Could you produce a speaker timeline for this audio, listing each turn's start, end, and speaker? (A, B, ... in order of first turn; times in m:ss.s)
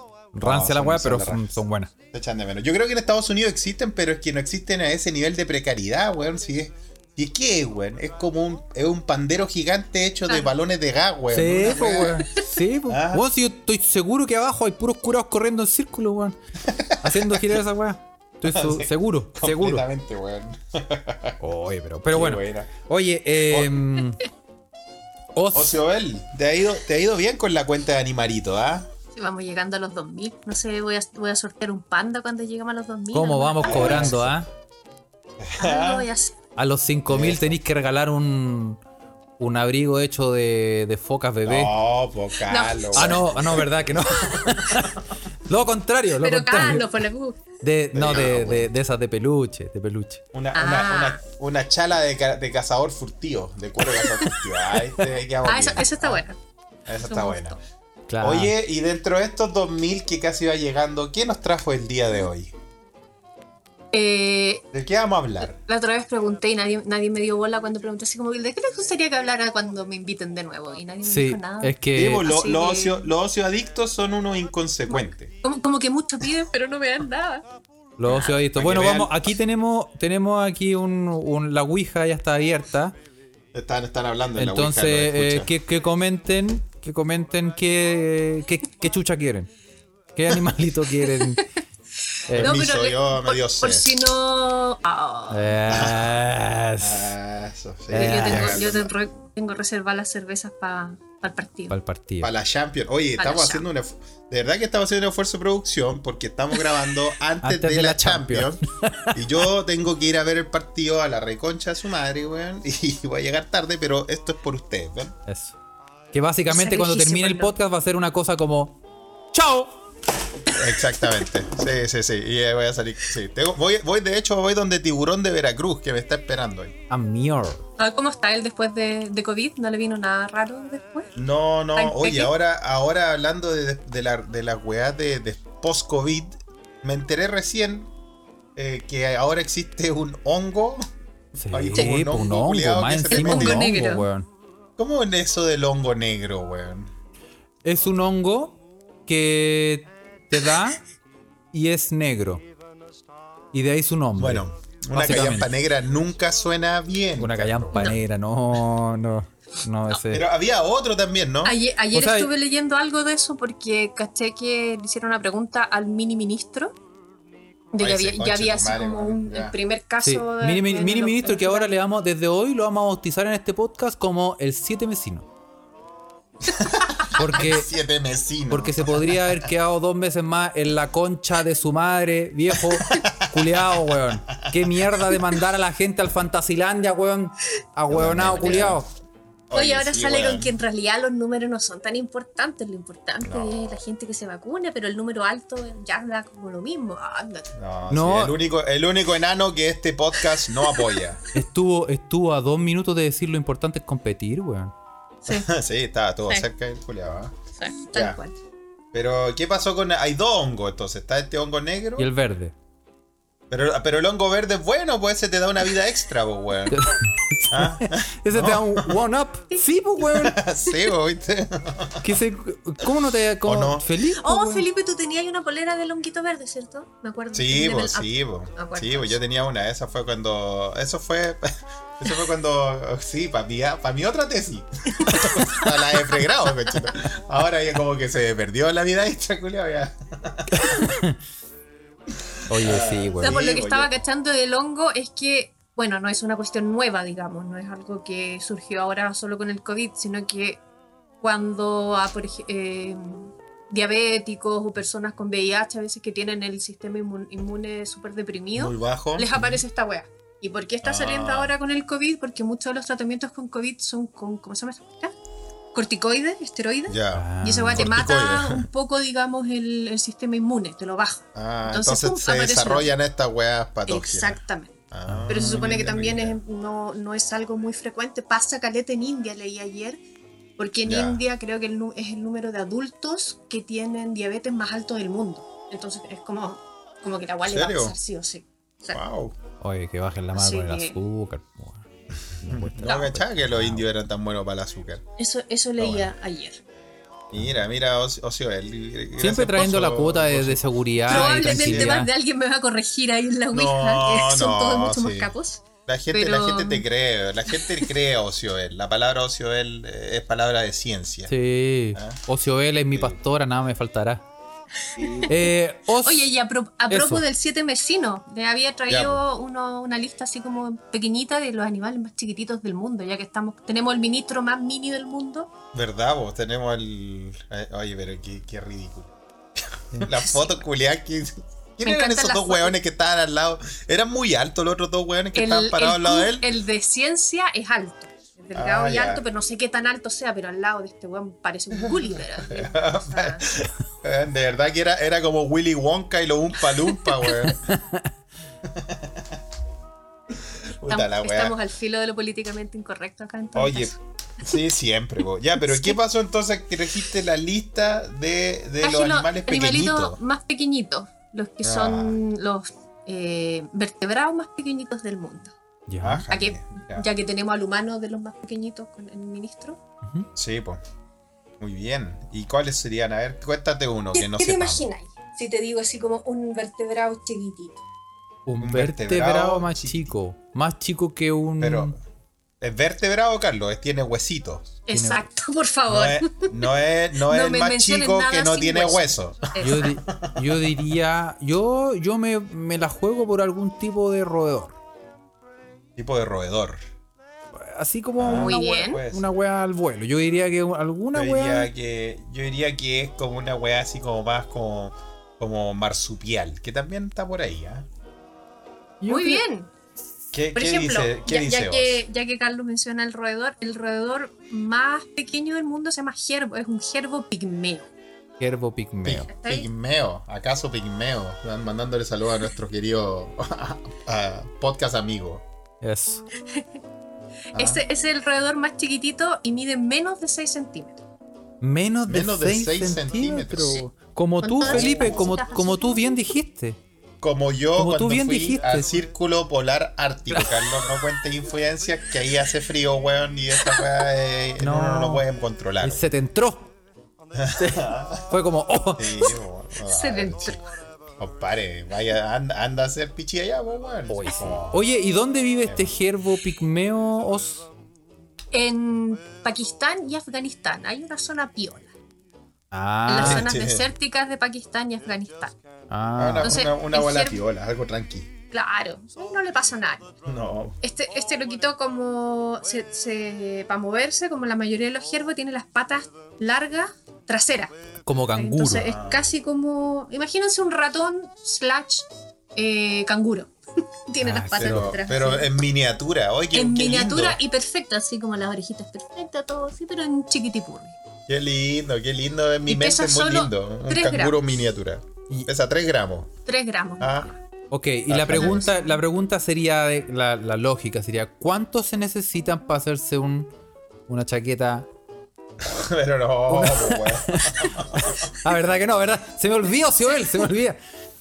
0:00.3-0:01.9 A
0:00.4-0:01.6 B
0:02.1-0:12.3 B
0:11.3-0:16.4 A
0:12.9-0:13.2 B
0:16.6-0:17.6 B
0:17.0-0:19.8 A
0:18.5-0:21.4 B
0:21.4-0:24.2 A
0:22.1-0:22.7 B
0:23.5-0:23.7 B
0:25.3-0:25.8 A
0:25.5-0:28.9 B
0:29.2-0:34.2 C
0:33.1-0:34.5 A
0:33.6-0:34.4 B
0:35.4-0:36.1 B
0:35.6-0:36.4 C
0:36.6-0:38.8 A
0:37.1-0:37.6 B
0:39.4-0:41.7 A
0:41.4-0:44.9 B
0:42.4-0:43.2 C
0:42.9-0:46.9 A
0:46.2-0:47.4 C
0:47.6-0:50.2 A
0:47.9-0:48.7 B
0:50.3-0:56.2 B
0:50.5-0:51.2 C
0:54.0-0:54.4 C
0:55.4-0:56.4 C
0:56.9-0:57.6 B
0:57.1-0:57.6 C
0:58.1-0:58.5 A
0:58.2-1:02.5 B
1:03.9-1:04.6 C
1:04.7-1:05.6 B
1:05.5-1:13.1 C
1:11.0-1:12.2 A
1:11.9-1:15.3 B
1:14.9-1:17.4 C
1:18.0-1:22.9 A
1:18.0-1:19.2 B
1:23.5-1:25.5 B
1:24.4-1:29.5 A
1:30.1-1:31.4 A
1:32.3-1:32.6 A
1:32.3-1:35.6 C
1:32.3-1:34.0 B
1:35.3-1:37.1 A
1:35.7-1:36.1 B
1:36.8-1:38.9 B
1:37.9-1:38.6 A
1:37.9-1:41.7 C
1:41.7-1:42.3 A
1:42.2-1:48.6 B
1:43.2-1:43.6 C
1:47.4-1:49.2 A
1:49.1-1:55.1 B
1:55.3-1:55.6 A
1:56.1-1:58.8 A
1:56.5-1:57.5 C
1:59.3-1:59.8 A
2:00.5-2:06.8 B
2:06.9-2:07.6 A
2:07.8-2:11.1 C
2:11.2-2:17.9 B
2:11.7-2:12.3 C
2:18.6-2:20.8 B
2:21.4-2:24.3 A
2:21.5-2:23.7 B
2:23.1-2:24.1 C
2:24.8-2:26.9 B
2:27.6-2:30.8 A
2:31.5-2:32.4 A
2:33.5-2:35.5 A
2:34.2-2:38.0 B
2:37.2-2:40.2 A
2:40.1-2:41.6 B
2:41.4-2:46.7 C
2:41.9-2:42.3 A
2:47.7-2:51.7 C
2:47.8-2:49.6 B
2:50.0-2:55.3 A
2:56.4-2:59.5 B
2:57.1-2:57.7 A
2:58.5-3:08.9 A
3:02.8-3:05.2 B
3:07.9-3:08.8 B
3:09.5-3:10.5 B
3:09.5-3:17.5 C
3:13.2-3:13.6 B
3:17.6-3:21.2 B
3:17.9-3:18.4 A
3:20.5-3:21.0 C
3:21.3-3:24.7 A
3:25.2-3:25.5 C
3:25.3-3:27.3 B
3:27.6-3:28.4 C
3:27.9-3:28.2 B
3:28.9-3:32.1 B
3:32.0-3:32.5 A
3:33.5-3:36.8 B
3:36.7-3:40.4 A
3:37.5-3:39.0 B
3:40.0-3:42.1 B
3:42.0-3:44.6 A
3:43.4-3:43.9 B
3:44.2-3:49.2 C
3:47.3-4:00.7 B
3:55.0-3:55.8 C
4:00.8-4:01.2 A
4:02.5-4:03.4 A
4:02.5-4:03.9 B
4:03.2-4:10.6 C
4:11.2-4:25.1 C
4:18.5-4:19.3 B
4:19.3-4:19.6 A
4:20.8-4:21.5 B
4:25.7-4:32.9 C
4:26.9-4:28.7 B
4:27.1-4:27.9 A
4:31.3-4:34.4 B
4:33.9-4:40.0 C
4:34.9-4:36.4 B
4:35.1-4:35.4 A
4:40.6-4:49.0 C
4:40.8-4:41.2 B
4:47.4-4:48.0 B
4:48.9-4:49.3 B
4:49.6-4:51.8 A
4:50.3-4:51.0 C
4:52.4-4:53.8 A
4:52.4-4:55.0 B
4:52.8-4:53.1 C
4:55.2-4:56.6 C
4:55.8-4:56.1 B
4:57.3-5:02.0 B
4:59.2-5:02.1 A
5:01.1-5:06.8 C
5:03.5-5:05.3 B
5:05.9-5:11.3 B
5:07.5-5:07.8 C
5:11.3-5:14.2 A
5:11.9-5:12.2 B
5:12.9-5:13.2 B
5:14.9-5:15.3 C
5:15.0-5:15.3 B
5:15.3-5:16.3 A
5:16.0-5:25.5 C
5:16.9-5:17.2 A
5:18.9-5:19.2 B
5:25.7-5:36.5 B
5:30.1-5:30.6 C
5:31.8-5:32.8 C
5:35.3-5:43.5 C
5:38.5-5:39.2 B
5:41.8-5:47.6 B
5:47.2-5:47.5 C
5:47.6-5:48.1 A
5:48.6-5:49.4 B
5:50.3-5:51.6 B
5:50.9-5:54.5 C
5:53.5-6:00.2 B
5:55.6-5:55.9 C
5:58.8-6:05.5 C
6:01.6-6:02.2 B
6:05.9-6:06.3 A
6:06.0-6:07.1 B
6:06.3-6:09.8 C
6:10.0-6:10.3 A
6:10.4-6:10.8 B
6:11.6-6:14.9 B
6:14.1-6:17.8 C
6:18.4-6:22.0 A
6:18.6-6:20.1 B
6:21.6-6:22.0 B
6:22.6-6:24.8 B
6:24.9-6:26.7 C
6:24.9-6:25.2 A
6:25.9-6:30.9 B
6:27.2-6:29.9 C
6:29.6-6:34.7 A
6:36.0-6:36.8 B
6:37.5-6:41.7 A
6:38.2-6:39.3 B
6:38.3-6:39.0 C
6:41.1-6:47.9 B
6:49.0-6:49.4 A
6:49.1-6:49.7 C
6:50.3-6:52.0 B
6:50.5-6:57.9 C
6:58.4-6:59.3 A
6:59.0-7:05.4 B
6:59.3-6:59.7 C
7:05.8-7:06.2 A
7:07.5-7:07.8 B
7:07.5-7:11.0 C
7:11.6-7:16.8 A
7:12.1-7:13.8 B
7:14.4-7:16.2 C
7:14.6-7:15.4 B
7:17.2-7:26.1 B
7:17.8-7:18.9 A
7:24.6-7:25.2 A
7:25.8-7:26.7 A
7:27.3-7:28.3 B
7:27.6-7:29.2 A
7:29.0-7:30.6 B
7:29.8-7:30.6 C
7:31.2-7:34.8 B
7:34.1-7:37.7 A
7:35.6-7:35.9 B
7:38.5-7:41.9 C
7:42.7-7:43.5 A
7:43.1-7:45.5 C
7:43.2-7:43.9 B
7:45.9-7:46.6 A
7:46.2-7:48.3 B
7:46.4-7:47.4 C
7:48.5-7:50.1 C
7:50.2-7:50.8 B
7:50.8-7:57.8 C
7:58.0-7:58.9 A
7:58.4-8:03.5 C
7:58.8-7:59.3 B
8:04.1-8:05.5 C
8:04.2-8:04.9 A
8:04.6-8:07.4 B
8:06.5-8:11.0 C
8:11.3-8:16.3 B
8:12.7-8:14.5 C
8:16.4-8:17.3 C
8:17.0-8:17.3 B
8:17.7-8:23.5 A
8:18.1-8:18.7 B
8:24.1-8:24.9 A
8:25.6-8:28.2 B
8:26.5-8:30.8 A